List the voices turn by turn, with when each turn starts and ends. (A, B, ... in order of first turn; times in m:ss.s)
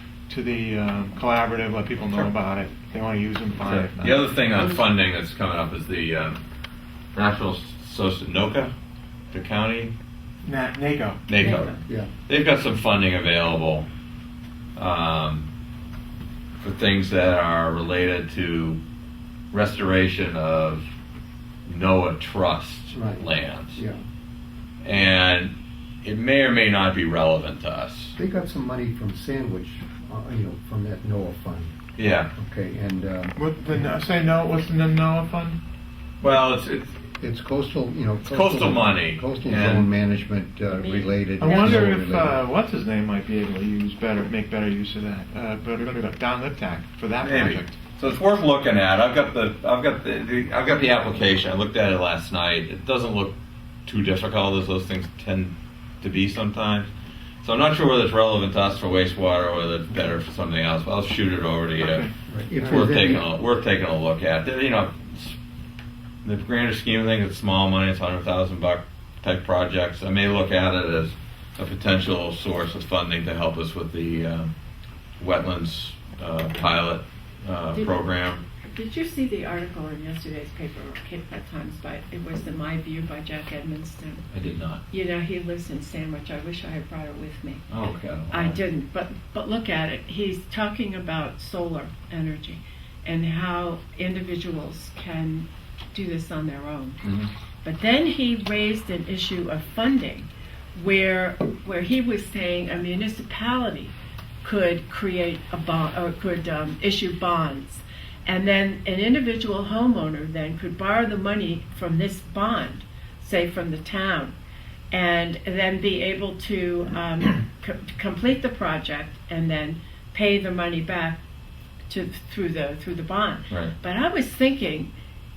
0:00.3-0:04.3 A
0:02.0-0:02.3 B
0:03.6-0:06.4 B
0:07.1-0:08.7 B
0:09.3-0:09.9 B
0:10.4-0:11.2 A
0:11.3-0:13.9 B
0:11.4-0:11.8 C
0:11.8-0:12.1 D
0:14.8-0:15.5 B
0:16.6-0:18.8 B
0:19.5-0:20.9 B
0:21.6-0:23.8 B
0:22.9-0:24.0 D
0:24.8-0:28.1 B
0:28.2-0:31.8 D
0:32.0-0:32.3 B
0:32.3-0:33.4 D
0:33.4-0:35.6 A
0:36.2-0:37.0 B
0:37.2-0:42.4 D
0:38.2-0:39.9 B
0:40.7-0:41.8 C
0:41.4-0:47.8 A
0:47.2-0:56.9 B
0:57.4-1:05.4 B
1:01.8-1:02.1 A
1:02.3-1:03.2 D
1:06.2-1:14.5 B
1:15.2-1:18.4 B
1:18.6-1:24.3 C
1:24.3-1:24.8 B
1:24.9-1:27.6 C
1:27.7-1:28.6 B
1:28.3-1:37.0 C
1:37.0-1:37.3 B
1:37.6-1:54.3 C
1:54.9-2:01.2 C
2:01.9-2:04.9 C